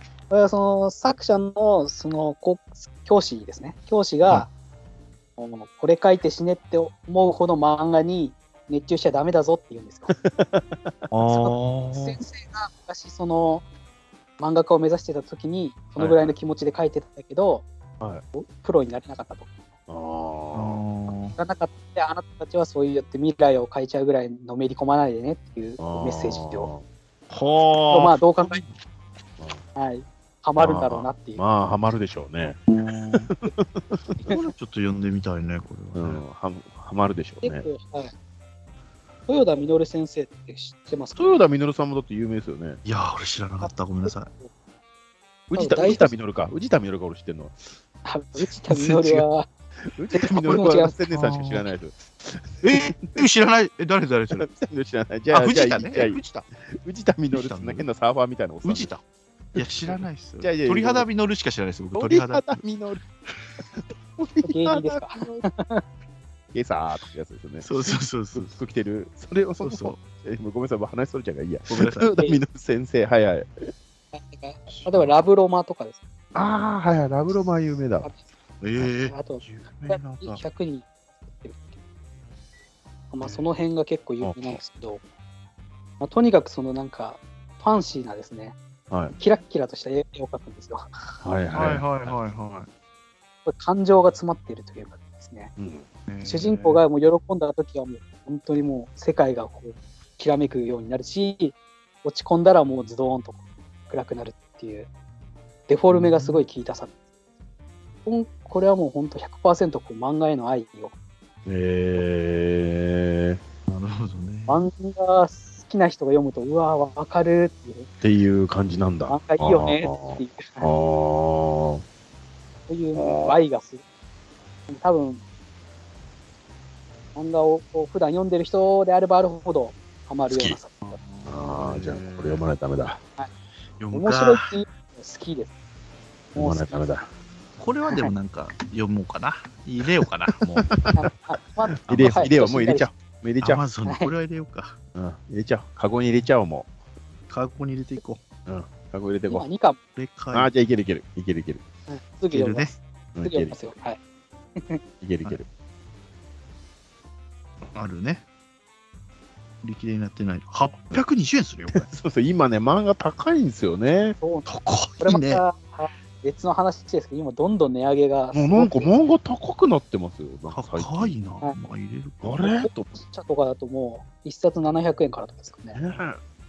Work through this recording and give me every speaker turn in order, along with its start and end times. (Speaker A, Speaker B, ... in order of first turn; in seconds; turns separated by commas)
Speaker A: 0.3-4.5, Speaker A: 5.4-10.2, Speaker B: 10.2-10.9, Speaker C: 11.1-12.2, Speaker A: 11.3-13.7, Speaker A: 14.4-17.6, Speaker C: 16.0-16.3, Speaker A: 18.3-19.5, Speaker B: 19.9-20.8, Speaker C: 20.5-21.4, Speaker A: 21.4-26.7, Speaker B: 25.8-26.8, Speaker C: 27.3-28.7, Speaker A: 27.9-28.6, Speaker A: 29.8-31.4, Speaker B: 30.6-32.6, Speaker C: 30.7-31.0, Speaker C: 32.7-33.3, Speaker B: 33.3-34.4, Speaker C: 34.3-36.2, Speaker B: 36.0-37.7, Speaker A: 37.4-38.1, Speaker A: 39.3-41.4, Speaker B: 41.2-42.8, Speaker C: 42.9-44.3, Speaker B: 45.5-47.6, Speaker A: 45.5-46.1, Speaker A: 48.0-49.5, Speaker C: 48.5-49.3, Speaker B: 49.9-53.2, Speaker A: 50.1-51.0, Speaker C: 51.1-51.7, Speaker C: 52.6-54.5, Speaker B: 54.3-58.9, Speaker C: 55.3-56.4, Speaker C: 57.3-57.9, Speaker C: 58.6-59.0, Speaker B: 59.5-61.1, Speaker C: 59.5-62.6, Speaker B: 62.0-63.0, Speaker B: 63.8-65.5, Speaker A: 64.4-65.8, Speaker B: 66.5-73.7, Speaker C: 67.6-68.6, Speaker C: 69.6-70.0, Speaker C: 71.7-72.2, Speaker A: 74.1-76.0, Speaker C: 74.7-75.2, Speaker B: 76.3-78.1, Speaker C: 78.6-80.4, Speaker A: 79.0-81.7, Speaker A: 83.1-85.0, Speaker B: 84.2-84.6, Speaker A: 86.0-88.6, Speaker B: 88.9-89.2, Speaker A: 89.2-90.9, Speaker B: 91.2-92.1, Speaker C: 91.5-92.7, Speaker A: 93.5-95.5, Speaker B: 95.6-95.9, Speaker C: 96.1-96.8, Speaker A: 96.2-104.9, Speaker A: 105.7-106.9, Speaker C: 105.9-106.4, Speaker A: 108.1-110.9, Speaker B: 111.5-113.4, Speaker C: 113.7-114.7, Speaker A: 114.5-117.9, Speaker B: 118.0-121.8, Speaker A: 119.1-120.7, Speaker A: 122.7-123.8, Speaker B: 123.0-123.4, Speaker A: 124.7-125.2, Speaker A: 127.2-131.0, Speaker B: 130.3-130.6, Speaker C: 130.8-132.4, Speaker B: 131.3-133.0, Speaker C: 133.8-134.6, Speaker A: 133.9-135.5, Speaker B: 136.3-137.1, Speaker A: 136.4-136.8, Speaker C: 137.6-140.7, Speaker B: 140.6-141.0, Speaker A: 140.9-142.9, Speaker B: 141.7-143.6, Speaker C: 141.9-142.3, Speaker C: 143.4-144.8, Speaker B: 144.9-146.7, Speaker C: 147.3-148.2, Speaker B: 148.5-149.5, Speaker A: 149.3-149.8, Speaker C: 150.0-150.5, Speaker B: 150.3-151.6, Speaker A: 151.9-154.0, Speaker C: 152.3-152.7, Speaker B: 153.2-153.6, Speaker B: 155.0-155.4, Speaker C: 157.7-158.2, Speaker C: 159.6-161.9, Speaker B: 161.7-164.2, Speaker A: 164.2-164.5, Speaker C: 164.5-165.4, Speaker A: 165.0-168.9, Speaker B: 168.3-171.1, Speaker C: 170.5-172.5, Speaker B: 172.2-172.7, Speaker A: 172.6-175.8, Speaker B: 175.8-176.2